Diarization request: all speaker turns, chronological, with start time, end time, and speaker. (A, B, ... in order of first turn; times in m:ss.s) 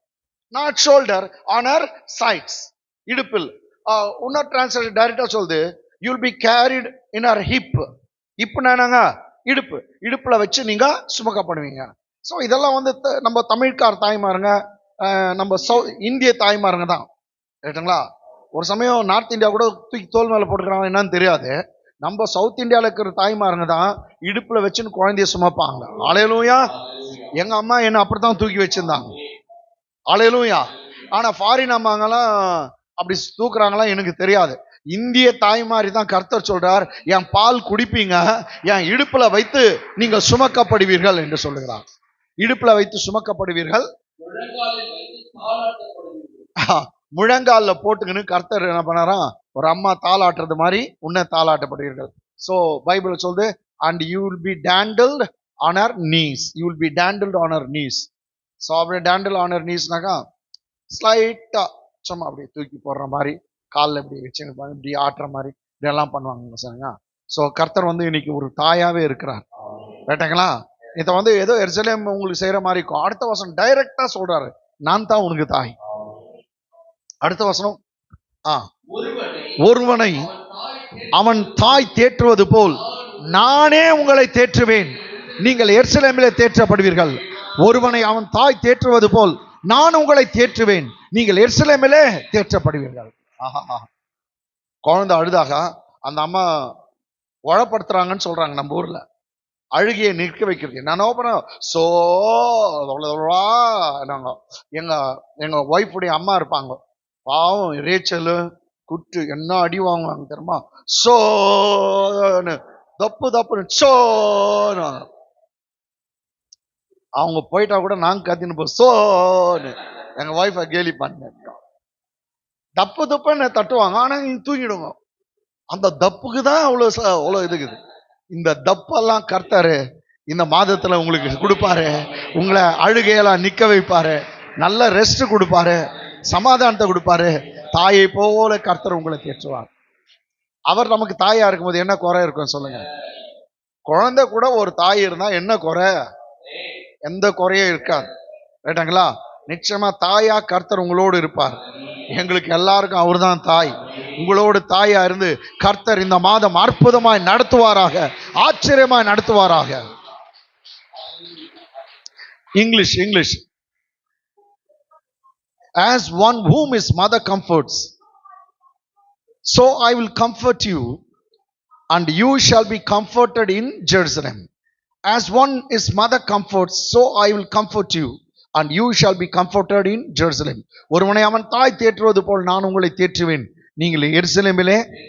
0:00.5-0:07.9 A
0:08.4-0:17.1 A
0:17.6-0:18.0 A
0:18.6-0:26.7 A
0:27.3-0:29.2 A
0:30.1-0:41.8 A
0:42.4-0:43.9 A
0:44.2-0:46.5 B
0:46.6-0:58.1 A
0:58.6-1:00.2 A
1:00.9-1:09.4 A
1:10.1-1:15.8 A
1:17.2-1:17.8 A
1:18.9-1:19.6 B
1:19.6-1:20.3 A
1:20.2-1:21.8 B
1:21.1-1:33.9 A
1:22.8-1:23.5 B
1:25.1-1:25.5 B
1:34.8-1:36.7 A
1:37.5-1:39.0 A
1:39.8-1:55.1 A
1:57.2-2:01.6 A
2:02.8-2:05.0 A
2:05.7-2:07.8 A
2:08.3-2:09.8 A
2:10.3-2:19.7 A
2:20.7-2:22.9 A
2:23.9-2:25.9 A
2:27.1-2:28.1 A
2:28.7-2:39.8 A
2:42.6-2:43.4 A
2:45.8-2:47.9 A
2:49.4-2:51.0 A
2:51.9-2:54.5 A
2:55.1-3:04.8 A